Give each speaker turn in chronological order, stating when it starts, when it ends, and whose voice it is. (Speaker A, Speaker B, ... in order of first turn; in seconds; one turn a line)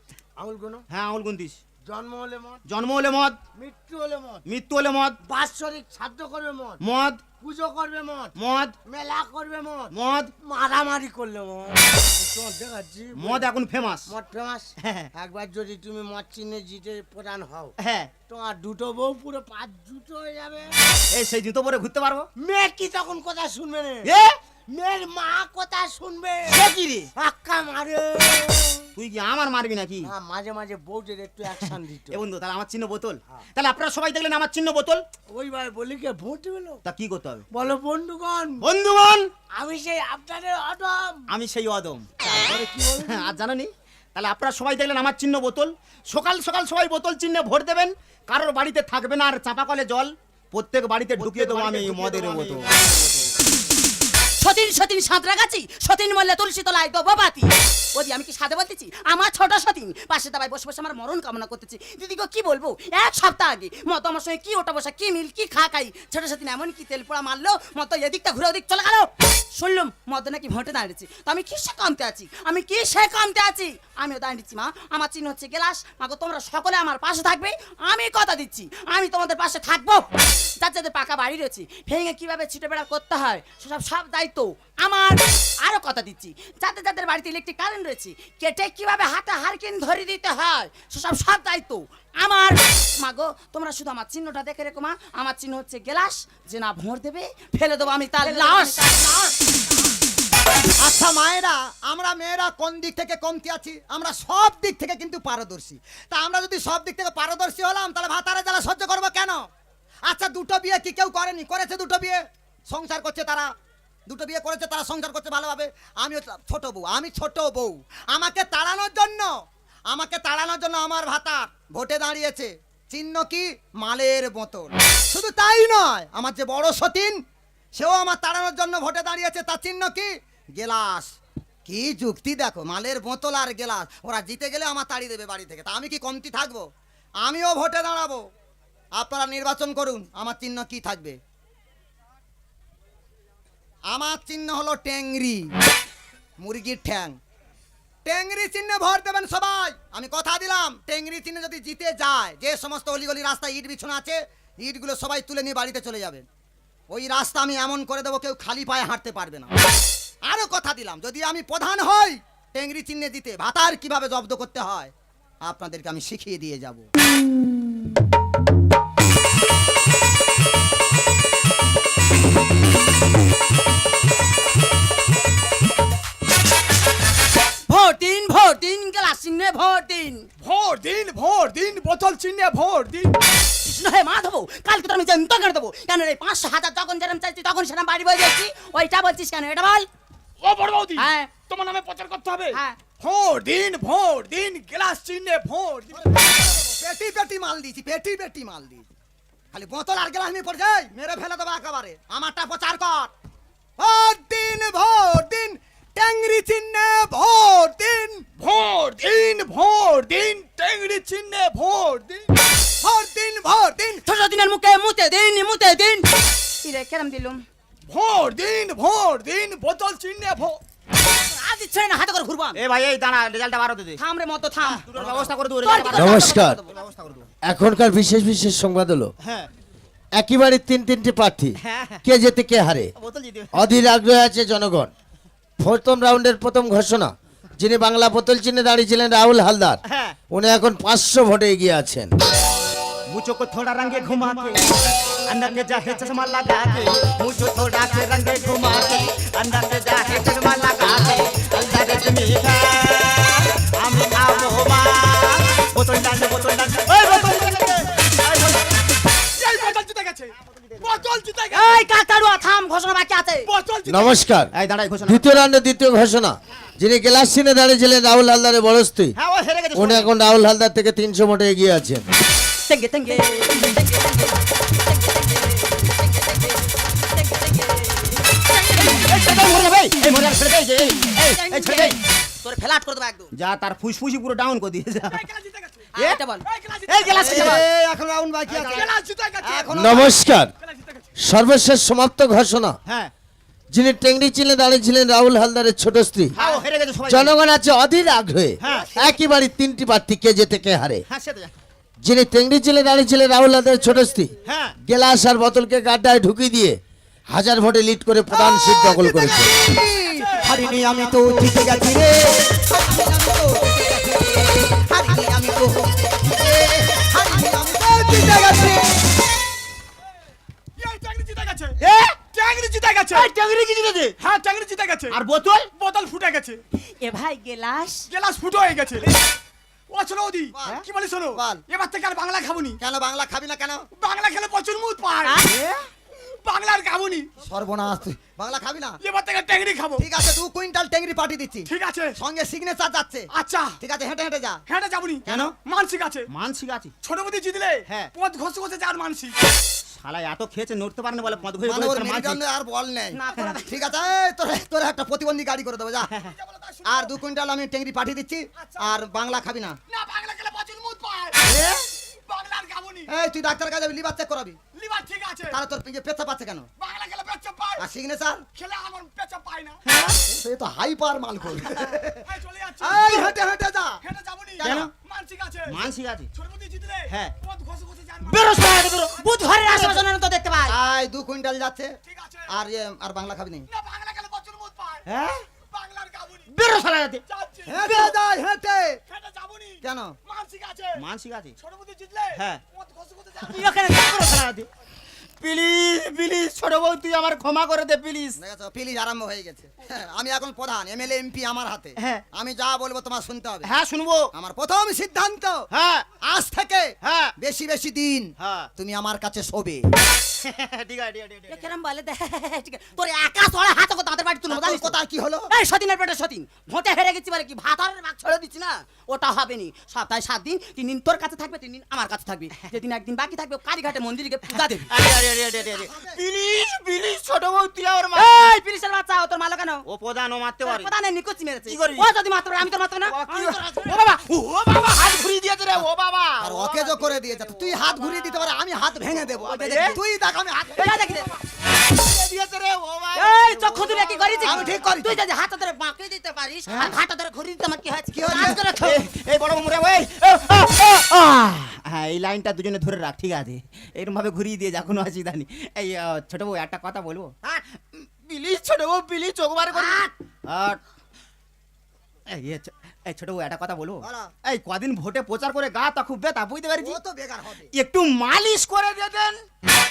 Speaker A: 0.4-0.8
Speaker B: 0.9-1.6
Speaker A: 1.9-2.6
Speaker B: 2.7-3.4
Speaker A: 3.6-4.4
Speaker B: 4.5-5.2
Speaker A: 5.3-6.8
Speaker B: 6.8-7.2
Speaker A: 7.4-8.3
Speaker B: 8.4-8.7
Speaker A: 8.8-9.9
Speaker B: 9.9-10.3
Speaker A: 10.4-13.4
Speaker B: 13.2-14.1
Speaker A: 14.1-17.7
Speaker B: 14.8-15.1
Speaker B: 17.8-18.1
Speaker A: 18.3-20.8
Speaker B: 21.1-22.3
Speaker A: 22.4-24.1
Speaker B: 24.0-24.3
Speaker A: 24.7-26.6
Speaker B: 26.5-27.1
Speaker A: 27.2-28.9
Speaker B: 28.9-30.1
Speaker A: 30.0-32.2
Speaker B: 31.6-35.0
Speaker A: 35.3-36.8
Speaker B: 36.8-37.5
Speaker A: 37.5-38.6
Speaker B: 38.6-39.3
Speaker A: 39.5-41.2
Speaker B: 41.3-42.1
Speaker A: 42.2-43.3
Speaker B: 43.0-53.2
Speaker A: 51.2-52.9
Speaker C: 54.4-80.0
Speaker C: 80.6-99.2
Speaker D: 98.5-98.8
Speaker E: 100.8-109.5
Speaker E: 110.1-113.5
Speaker E: 114.1-119.3
Speaker E: 119.9-127.2
Speaker E: 127.7-131.1
Speaker E: 131.7-136.7
Speaker E: 137.2-138.2
Speaker E: 138.9-141.2
Speaker E: 143.9-145.5
Speaker E: 146.4-147.2
Speaker E: 148.0-156.2
Speaker E: 156.9-159.5
Speaker E: 160.2-166.8
Speaker C: 177.7-180.3
Speaker D: 180.4-183.1
Speaker C: 183.6-189.9
Speaker D: 190.4-196.1
Speaker C: 191.0-191.3
Speaker C: 192.5-192.8
Speaker E: 195.9-198.9
Speaker E: 199.5-203.1
Speaker E: 203.8-208.2
Speaker D: 208.3-212.3
Speaker E: 212.8-214.0
Speaker C: 214.0-216.1
Speaker C: 216.6-217.4
Speaker D: 217.9-220.6
Speaker C: 221.3-222.6
Speaker B: 222.6-224.0
Speaker C: 224.0-224.8
Speaker B: 224.6-227.3
Speaker C: 225.6-226.4
Speaker F: 225.9-226.6
Speaker F: 227.4-229.1
Speaker B: 229.2-229.5
Speaker F: 230.2-232.9
Speaker B: 231.6-232.0
Speaker B: 233.0-233.7
Speaker F: 233.5-234.9
Speaker F: 235.6-239.8
Speaker B: 239.9-240.2
Speaker F: 240.3-242.1
Speaker B: 243.1-244.6
Speaker B: 245.3-258.7
Speaker D: 257.0-257.7
Speaker D: 259.4-261.8
Speaker B: 260.4-261.0
Speaker C: 261.5-263.5
Speaker D: 263.4-264.2
Speaker F: 263.9-264.5
Speaker B: 264.5-265.5
Speaker F: 265.1-269.1
Speaker B: 269.2-270.1
Speaker F: 269.7-272.0
Speaker C: 272.7-279.1
Speaker B: 278.8-282.0
Speaker C: 281.2-283.3
Speaker B: 283.3-285.2
Speaker D: 285.1-285.9
Speaker C: 285.9-286.4
Speaker D: 286.4-287.6
Speaker B: 286.9-287.7
Speaker C: 287.1-287.6
Speaker E: 287.1-288.9
Speaker B: 288.5-288.9
Speaker D: 288.7-291.1
Speaker E: 289.4-290.1
Speaker F: 289.7-290.5
Speaker F: 291.2-292.8
Speaker B: 292.9-293.1
Speaker F: 293.7-296.3
Speaker B: 296.4-297.3
Speaker F: 297.1-301.0
Speaker B: 298.6-299.0
Speaker B: 301.1-301.5
Speaker F: 302.0-304.3
Speaker B: 304.4-304.7
Speaker F: 304.9-306.8
Speaker F: 307.3-309.5
Speaker E: 308.3-318.9
Speaker D: 320.8-323.3
Speaker B: 321.8-322.1
Speaker B: 323.1-324.1
Speaker D: 324.2-325.2
Speaker B: 325.1-325.7
Speaker D: 325.8-326.6
Speaker C: 327.0-328.0
Speaker D: 328.1-329.2
Speaker D: 329.9-332.8
Speaker E: 330.6-330.8
Speaker E: 331.4-331.6
Speaker E: 332.8-333.9
Speaker D: 334.0-335.4
Speaker B: 335.4-335.9
Speaker D: 336.4-337.3
Speaker E: 337.4-339.0
Speaker D: 339.0-340.0
Speaker E: 340.0-343.3
Speaker D: 341.6-342.1
Speaker D: 343.3-343.8
Speaker E: 343.8-344.6
Speaker D: 344.7-346.3
Speaker B: 345.2-345.5
Speaker B: 346.3-346.9
Speaker D: 347.0-349.4
Speaker B: 350.0-352.4
Speaker E: 351.6-356.1
Speaker C: 353.1-353.8
Speaker B: 353.3-353.5
Speaker D: 356.2-357.2
Speaker E: 356.9-359.8
Speaker D: 358.6-358.9
Speaker D: 359.9-361.4
Speaker B: 361.4-361.8
Speaker D: 362.3-363.1
Speaker E: 363.1-364.6
Speaker D: 364.7-365.6
Speaker E: 365.5-366.7
Speaker D: 366.8-367.8
Speaker E: 367.8-368.4
Speaker D: 368.6-369.8
Speaker B: 369.9-370.2
Speaker E: 370.3-372.2
Speaker D: 372.2-373.4
Speaker E: 372.8-374.0
Speaker D: 374.0-375.8
Speaker E: 374.6-374.9
Speaker B: 374.6-374.9
Speaker B: 375.7-376.3
Speaker D: 376.3-378.6
Speaker C: 378.3-380.7
Speaker B: 378.5-379.1
Speaker B: 379.6-380.0
Speaker E: 380.7-382.0
Speaker D: 382.0-382.5
Speaker E: 382.5-383.6
Speaker D: 383.7-385.1
Speaker B: 385.1-385.4
Speaker D: 385.7-386.5
Speaker B: 386.5-387.2
Speaker D: 387.3-388.1
Speaker E: 387.7-389.0
Speaker D: 389.1-391.0
Speaker E: 389.8-390.1
Speaker B: 391.0-391.6
Speaker D: 391.6-393.6
Speaker C: 393.5-394.4
Speaker B: 393.6-394.7
Speaker B: 395.4-398.4
Speaker E: 398.4-403.7
Speaker B: 403.6-404.3
Speaker E: 404.4-405.6
Speaker B: 405.7-406.1
Speaker E: 406.2-409.8
Speaker B: 407.0-407.3
Speaker B: 408.4-408.7
Speaker B: 410.4-411.7
Speaker C: 411.5-414.9
Speaker E: 414.5-415.5
Speaker C: 415.5-424.9
Speaker B: 424.5-428.4
Speaker E: 425.6-426.2
Speaker C: 428.1-429.8
Speaker B: 429.9-430.9
Speaker C: 430.6-434.3
Speaker B: 431.7-432.1
Speaker B: 433.1-438.3
Speaker E: 436.4-440.9
Speaker B: 439.3-440.0
Speaker B: 440.8-444.8
Speaker C: 440.8-441.3
Speaker C: 443.1-449.0
Speaker E: 444.4-445.2
Speaker E: 448.1-448.6
Speaker B: 448.4-460.8
Speaker C: 459.7-460.1
Speaker B: 462.3-467.0
Speaker E: 464.0-464.3
Speaker E: 466.8-467.7
Speaker B: 467.7-469.4